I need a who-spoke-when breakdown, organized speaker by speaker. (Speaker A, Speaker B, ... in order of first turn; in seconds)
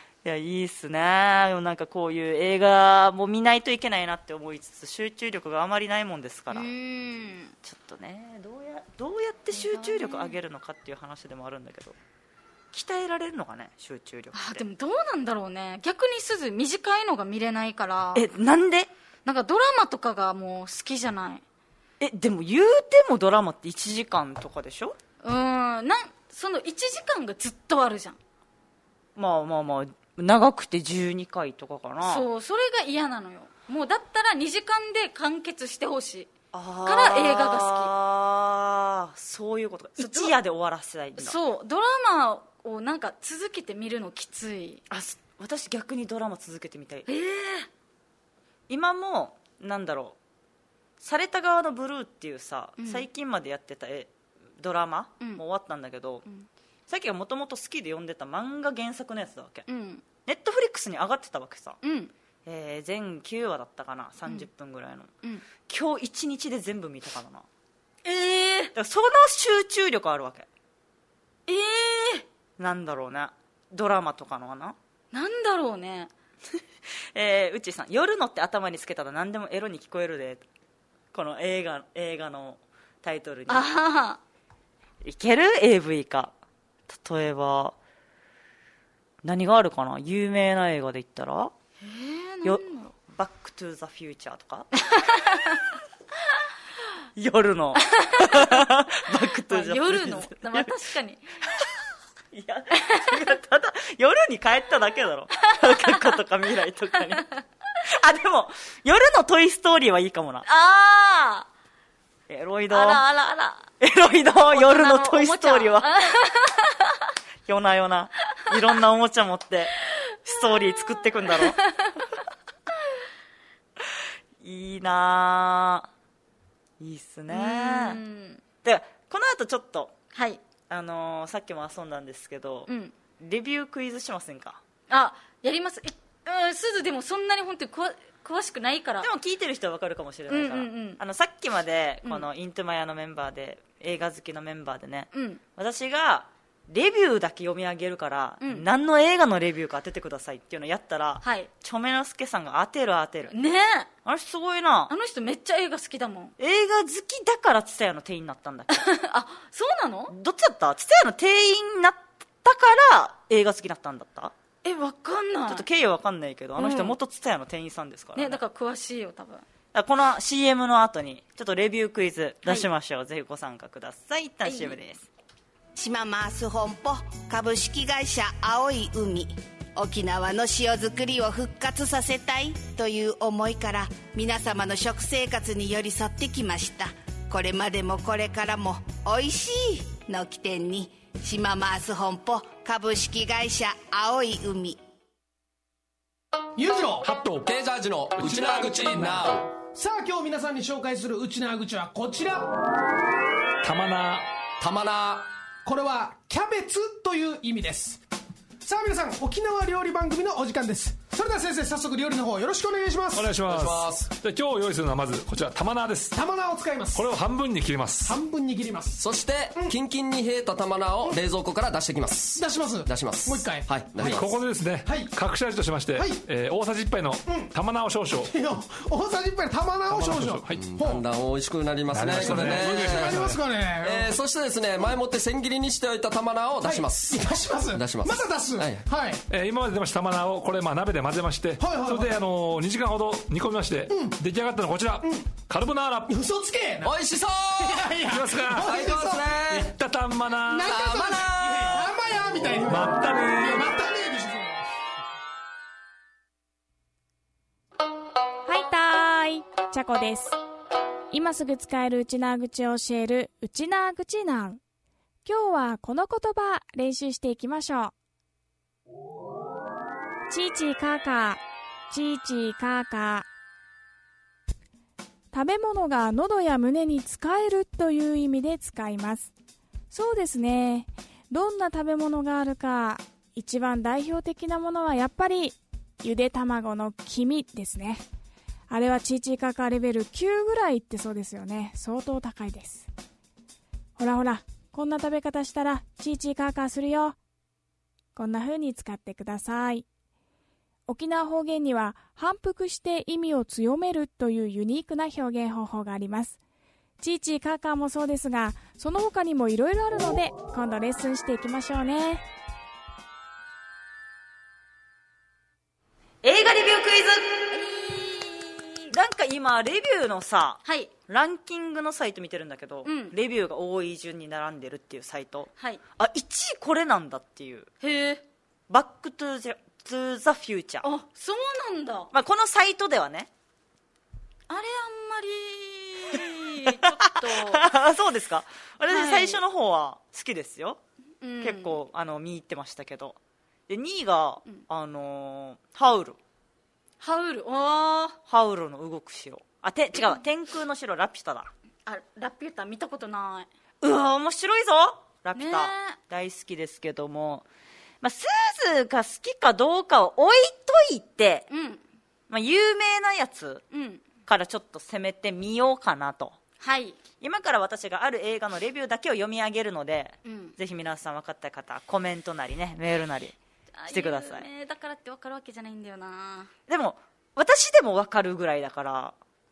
Speaker A: 0.2-6.7, 7.6-11.9, 12.7-14.6, 18.1-18.9, 22.0-25.0, 29.1-32.2, 36.5-41.4, 44.9-47.1, 48.7-50.1, 51.0-56.2, 56.9-59.7, 60.2-61.8, 62.5-65.1, 65.7-67.4, 68.7-70.5, 72.6-74.8, 77.1-80.4, 81.1-83.7, 85.0-86.3, 86.9-87.8, 89.2-91.5, 92.4-94.9, 97.2-100.7, 102.3-107.3, 107.9-110.5, 112.3-113.0, 113.8-115.9, 117.5-121.6, 124.4-125.9, 126.8-128.0, 128.6-129.9, 130.7-134.6, 139.0-153.3, 154.0-154.9, 156.4-158.9, 160.1-164.3, 165.5-168.4, 169.7-175.1, 316.2-317.4, 318.9-327.7, 328.7-330.9, 332.1-333.3, 336.1-340.8, 341.4-343.2, 343.7-346.2, 348.3-351.5, 353.8-357.4, 358.0-361.5, 362.3-363.6, 364.2-366.4, 367.2-373.4, 373.9-374.4, 376.7-379.1
Speaker B: 6.5-7.5, 9.5-10.3, 14.3-18.2, 19.2-21.4, 25.2-28.2, 32.0-36.3, 36.8-37.9, 40.0-40.3, 41.2-44.8, 47.1-47.7, 52.8-53.0, 59.7-60.0, 61.8-62.1, 68.0-68.7, 71.5-72.2, 75.1-76.1, 83.5-84.2, 91.8-92.9, 94.8-95.6, 97.8-98.7, 99.5-101.2, 105.4-106.2, 110.5-111.5, 112.7-113.7, 114.5-117.0, 120.3-122.0, 127.3-128.4, 130.1-130.4, 132.7-132.9, 134.9-139.1, 140.3-141.0, 145.1-145.4, 151.2-151.5, 153.3-153.9, 154.9-156.3, 158.7-160.1, 164.6-165.7, 166.6-166.9, 168.2-169.4, 174.4-174.8, 317.5-318.9, 320.6-320.9, 322.8-323.1, 327.8-328.2, 330.8-332.1, 334.5-337.6, 338.9-339.4, 341.2-341.8, 347.0-348.2, 351.9-353.5, 355.4-356.0, 361.5-361.8, 363.7-364.0, 366.6-367.0, 370.2-370.5, 373.8-376.5
Speaker C: 175.8-194.8
Speaker D: 196.6-197.1, 198.3-202.5, 205.6-208.0, 208.6-213.4, 216.1-217.0, 218.0-219.0, 222.3-225.1, 225.9-226.2, 227.2-227.5, 228.2-231.0, 232.1-234.1, 236.6-239.2, 241.6-242.2, 243.9-244.2, 245.0-245.3, 246.1-246.9, 247.6-249.7, 250.5-254.8
Speaker E: 197.0-197.5, 198.2-199.1, 203.6-204.3, 213.1-216.2, 216.9-218.2, 224.0-228.3, 229.9-230.7, 231.9-233.4, 239.3-246.2, 248.1-248.8, 249.5-250.8, 252.7-253.7
Speaker F: 197.4-199.5, 204.6-205.3, 213.4-214.1, 219.0-224.3, 230.5-238.8, 246.8-247.9, 248.6-249.7, 250.7-251.9
Speaker G: 258.4-260.4, 261.1-264.6, 265.2-267.9, 270.3-273.3, 275.3-279.3, 279.9-288.0, 288.7-292.9, 294.0-297.1, 298.1-299.9, 300.9-306.4, 307.0-312.2